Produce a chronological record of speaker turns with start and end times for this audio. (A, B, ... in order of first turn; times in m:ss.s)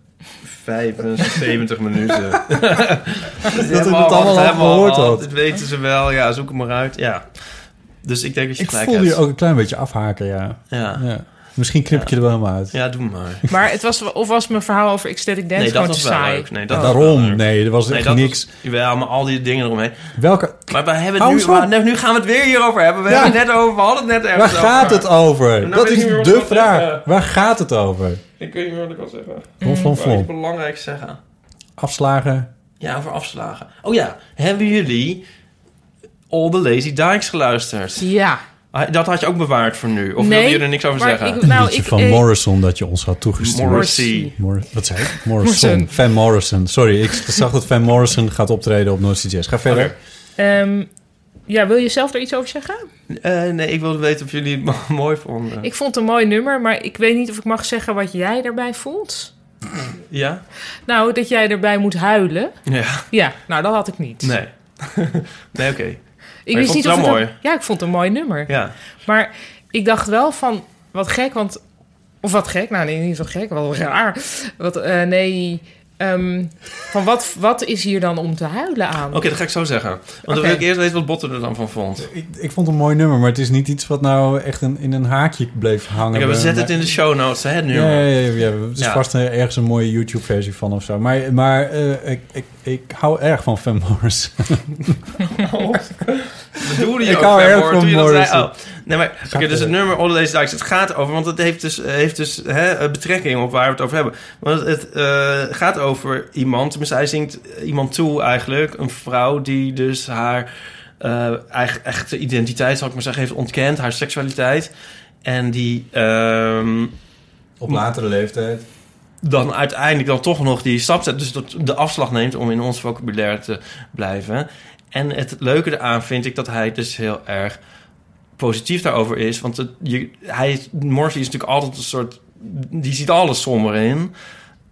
0:00.4-0:07.4 A
0:03.5-0:05.3 B
0:08.0-0:09.2 A
0:08.6-0:12.8 B
0:10.7-0:11.1 A
0:12.7-0:13.4 A
0:13.5-0:16.5 C
0:15.6-0:20.1 A
0:16.7-0:18.5 B
0:20.2-0:21.7 B
0:20.7-0:27.1 A
0:23.1-0:23.4 B
0:24.4-0:28.2 B
0:28.4-0:31.2 A
0:29.6-0:30.0 C
0:29.6-0:30.3 B
0:31.8-0:32.5 B
0:32.8-0:35.2 A
0:36.3-0:38.1 A
0:38.0-0:38.4 C
0:38.7-0:41.4 A
0:40.2-0:42.2 C
0:41.4-0:50.0 B
0:43.4-0:44.3 A
0:43.7-0:44.4 C
0:45.0-0:45.9 C
0:49.7-0:49.9 A
0:50.4-0:50.9 C
0:51.5-0:52.9 C
0:53.1-0:55.7 A
0:55.6-0:59.3 C
1:00.1-1:00.4 A
1:00.9-1:02.6 C
1:02.7-1:03.1 A
1:03.1-1:04.3 C
1:04.2-1:07.4 A
1:06.5-1:08.5 C
1:08.5-1:08.8 A
1:09.0-1:11.6 C
1:12.2-1:19.3 C
1:19.1-1:22.1 A
1:20.3-1:20.6 C
1:22.0-1:26.8 B
1:26.1-1:28.1 A
1:27.7-1:35.0 B
1:35.3-1:50.5 A
1:36.8-1:38.5 B
1:39.3-1:39.8 B
1:51.0-1:54.7 A
1:55.2-1:56.9 A
1:57.6-1:58.6 B
1:59.2-2:07.6 A
2:08.4-2:14.1 A